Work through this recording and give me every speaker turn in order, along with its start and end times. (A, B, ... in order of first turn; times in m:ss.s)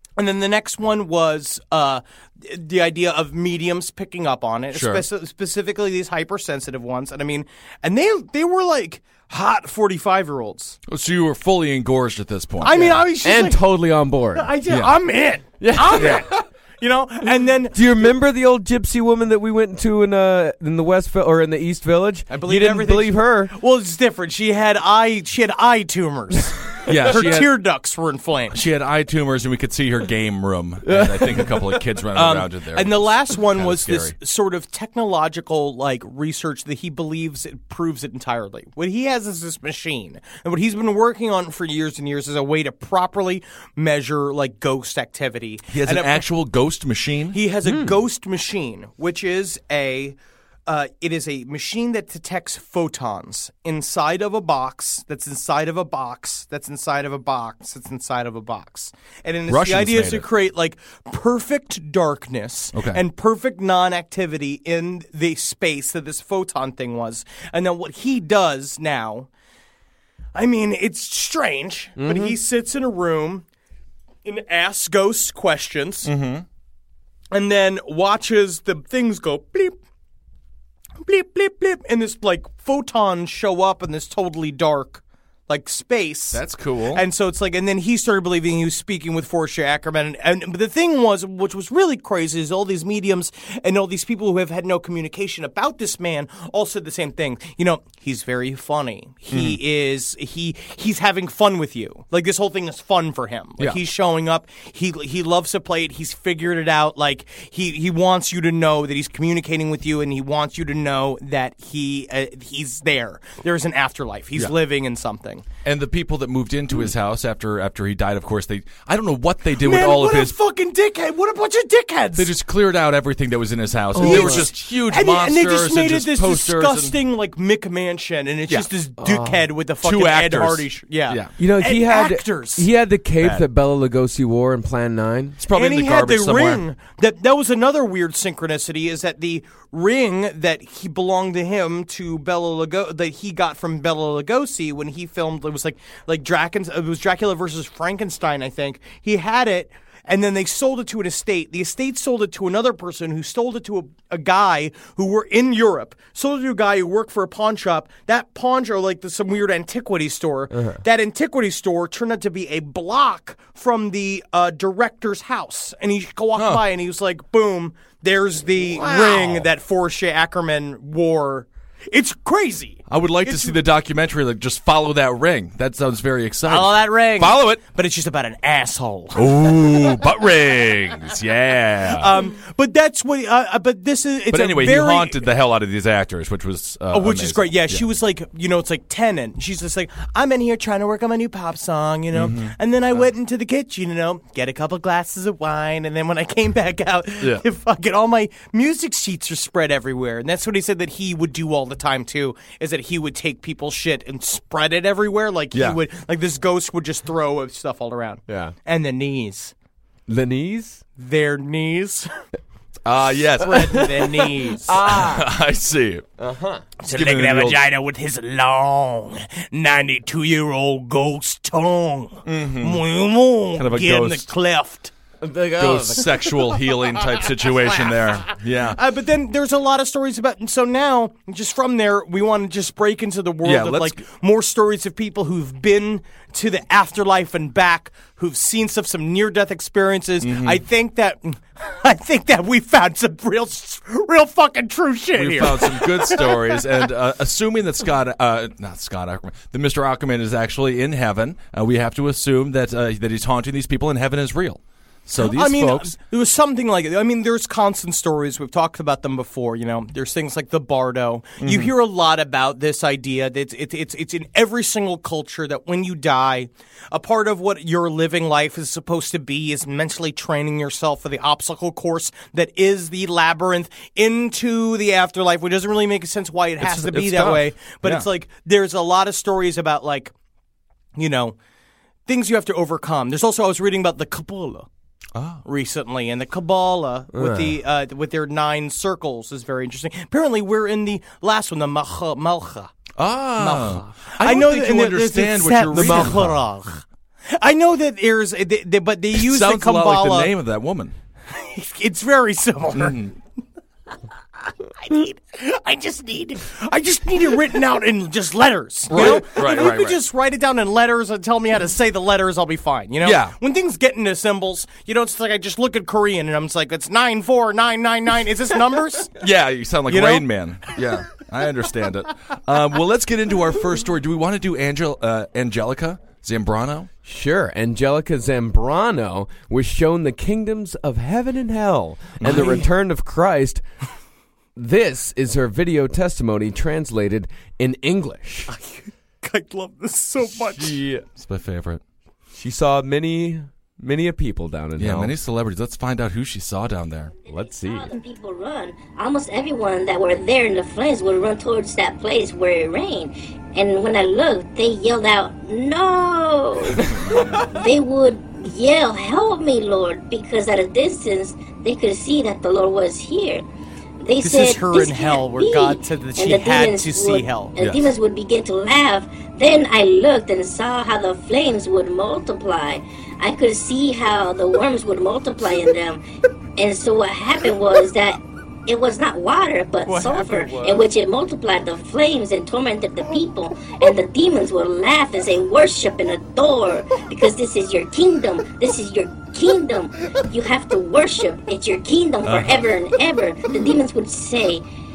0:00.2-0:10.8 A
0:04.7-0:05.0 B
0:10.9-0:13.0 B
0:12.6-0:13.6 A
0:13.2-0:14.5 C
0:14.3-0:18.1 A
0:14.7-0:14.9 B
0:15.6-0:16.3 C
0:17.7-0:23.5 C
0:22.3-0:28.6 A
0:26.8-0:27.5 B
0:28.5-0:34.1 B
0:30.8-0:31.8 C
0:32.1-0:46.2 A
0:45.7-0:47.4 B
0:47.3-0:50.2 A
0:47.7-0:47.9 C
0:50.7-1:09.3 A
0:59.5-1:00.3 B
1:02.7-1:03.0 B
1:10.3-1:13.4 A
1:12.0-1:12.3 C
1:14.2-1:16.1 A
1:16.0-1:16.4 B
1:17.3-1:19.8 A
1:21.0-1:26.4 A
1:26.3-1:27.0 B
1:26.9-1:55.4 A
1:39.3-1:39.6 B
1:55.6-2:00.3 B
1:59.6-2:02.3 A
2:02.2-2:07.0 B
2:03.9-2:04.5 C
2:04.0-2:12.7 A
2:09.0-2:09.4 C
2:09.8-2:11.3 B
2:11.4-2:15.4 C
2:13.2-2:13.5 B
2:15.4-2:16.6 B
2:15.5-2:53.6 A
2:40.5-2:40.8 C
2:46.3-2:46.6 B
2:48.8-2:49.4 B
2:52.9-2:57.6 B
2:56.5-2:59.4 A
2:59.1-3:02.1 B
3:01.9-3:05.2 A
3:04.3-3:07.8 B
3:06.9-3:29.5 A
3:12.1-3:12.5 B
3:25.5-3:25.8 B
3:28.3-3:28.5 C
3:30.1-3:30.8 C
3:31.0-3:32.1 A
3:32.8-3:34.1 B
3:33.4-3:34.8 A
3:34.6-3:35.3 C
3:34.8-3:36.1 B
3:36.2-3:36.6 C
3:36.8-3:44.9 A
3:36.8-3:37.6 B
3:42.2-3:42.8 B
3:43.5-3:44.3 B
3:45.2-3:46.3 C
3:45.6-3:48.8 B
3:48.7-4:06.6 A
3:53.4-3:54.0 B
4:00.2-4:00.6 B
4:05.1-4:15.9 B
4:15.2-4:40.1 A
4:21.4-4:21.7 B
4:36.6-4:38.1 B
4:41.0-4:41.4 A
4:42.1-4:44.7 A
4:45.1-4:45.4 B
4:45.4-4:52.7 A
4:47.1-4:47.6 C
4:53.0-4:56.4 B
4:53.4-4:56.8 A
4:55.8-4:56.1 C
4:57.3-5:00.3 A
4:59.1-5:00.9 B
5:01.3-5:03.0 A
5:02.7-5:03.2 B
5:04.7-5:19.2 A
5:08.9-5:10.0 B
5:13.0-5:13.4 B
5:19.2-5:26.9 B
5:19.9-5:20.2 A
5:27.0-5:33.6 C
5:32.2-5:32.6 B
5:32.3-5:32.6 A
5:34.6-5:38.5 C
5:38.5-5:40.8 A
5:40.3-5:41.0 C
5:41.2-5:41.8 B
5:42.3-5:45.1 C
5:44.8-5:47.1 B
5:47.1-5:56.9 D
5:47.3-5:47.9 C
5:56.8-5:57.4 B
5:56.8-5:57.2 C
5:57.5-6:03.4 D
6:04.0-6:16.0 D
6:04.2-6:07.5 A
6:07.6-6:07.9 B
6:16.6-6:34.6 D
6:19.9-6:20.8 A
6:32.2-6:32.7 B